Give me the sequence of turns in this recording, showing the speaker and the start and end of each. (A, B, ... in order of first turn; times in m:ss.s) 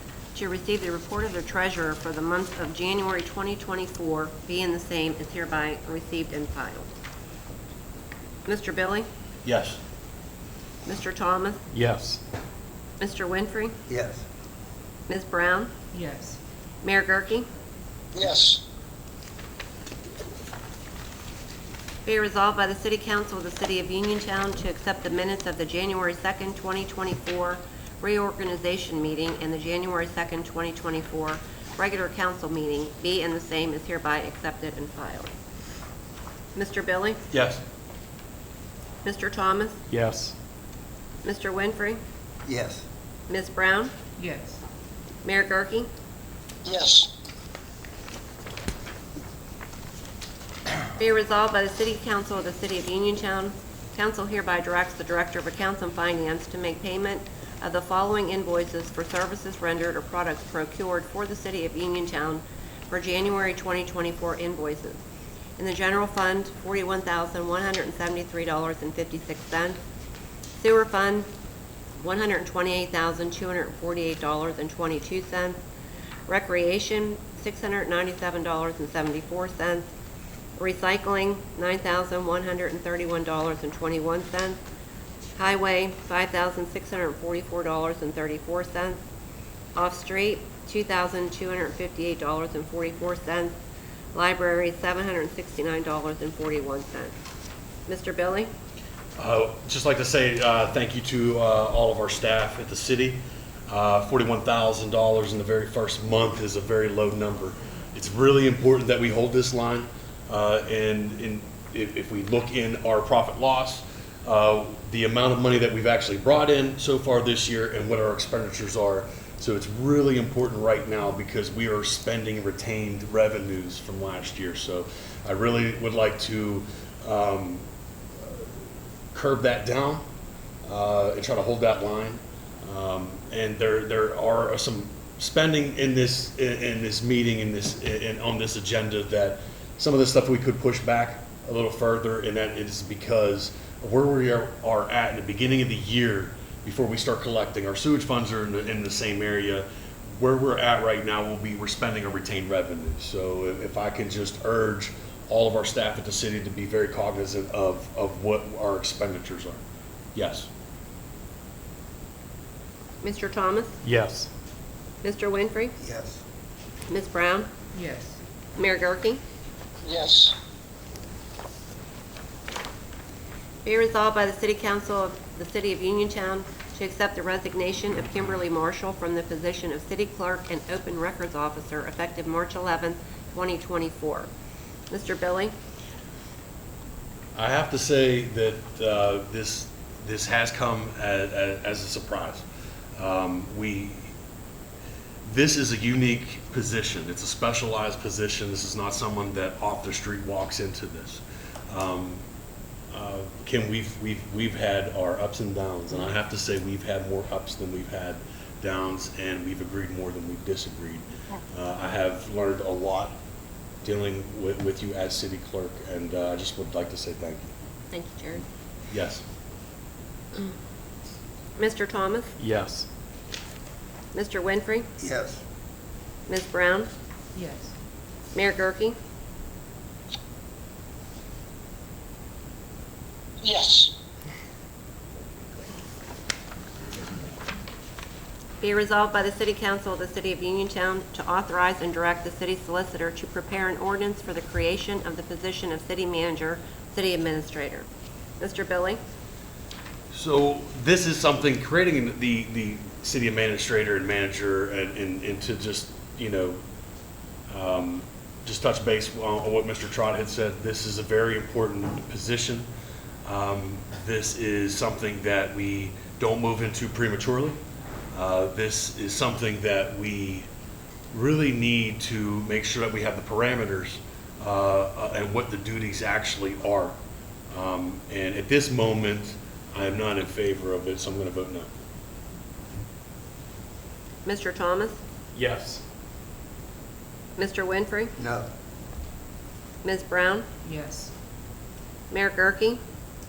0:00.3-0:06.9 A
0:08.4-0:09.1 A
0:09.4-0:09.8 B
0:10.8-0:11.6 A
0:11.7-0:12.2 C
0:13.0-0:13.8 A
0:13.9-0:14.2 D
0:15.1-0:15.7 A
0:15.9-0:16.4 E
0:16.8-0:17.4 A
0:18.1-0:18.6 F
0:22.0-0:35.3 A
0:36.5-0:37.2 A
0:37.3-0:37.6 B
0:39.0-0:39.8 A
0:39.9-0:40.3 C
0:41.2-0:42.0 A
0:42.4-0:42.8 D
0:43.3-0:43.9 A
0:44.2-0:44.6 E
0:45.2-0:45.9 A
0:46.6-0:47.1 F
0:51.0-1:05.0 A
1:05.6-1:09.8 A
1:10.6-1:11.3 A
1:12.0-1:15.6 A
1:16.3-1:19.9 A
1:20.6-1:24.6 A
1:25.4-1:29.0 A
1:29.7-1:33.6 A
1:34.1-1:37.1 A
1:37.9-1:38.5 A
1:39.2-2:07.6 B
2:09.1-2:10.0 B
2:10.6-2:39.6 B
2:40.1-2:40.5 B
2:43.0-2:43.8 A
2:43.8-2:44.3 C
2:45.0-2:45.7 A
2:45.8-2:46.2 D
2:46.9-2:47.5 A
2:47.7-2:48.2 E
2:48.6-2:49.2 A
2:49.8-2:50.4 F
2:53.6-3:04.3 A
3:04.9-3:05.5 A
3:07.3-3:12.4 B
3:13.0-3:14.1 B
3:15.2-3:22.2 B
3:22.9-3:33.2 B
3:33.8-3:37.5 B
3:37.9-3:38.4 A
3:38.9-3:39.2 B
3:41.6-3:42.3 A
3:42.4-3:42.9 C
3:44.1-3:44.9 A
3:45.0-3:45.4 D
3:46.3-3:46.9 A
3:47.3-3:47.7 E
3:48.3-3:49.0 A
3:53.4-3:53.9 F
3:58.6-4:07.8 A
4:08.4-4:09.0 A
4:10.1-4:16.6 B
4:17.5-4:22.7 B
4:23.2-4:27.6 B
4:28.1-4:30.5 B
4:31.1-4:37.0 B
4:37.5-4:41.7 B
4:44.2-4:45.0 A
4:45.3-4:45.8 C
4:47.4-4:48.1 A
4:48.2-4:48.5 D
4:49.8-4:50.5 A
4:50.6-4:51.1 E
4:52.1-4:52.8 A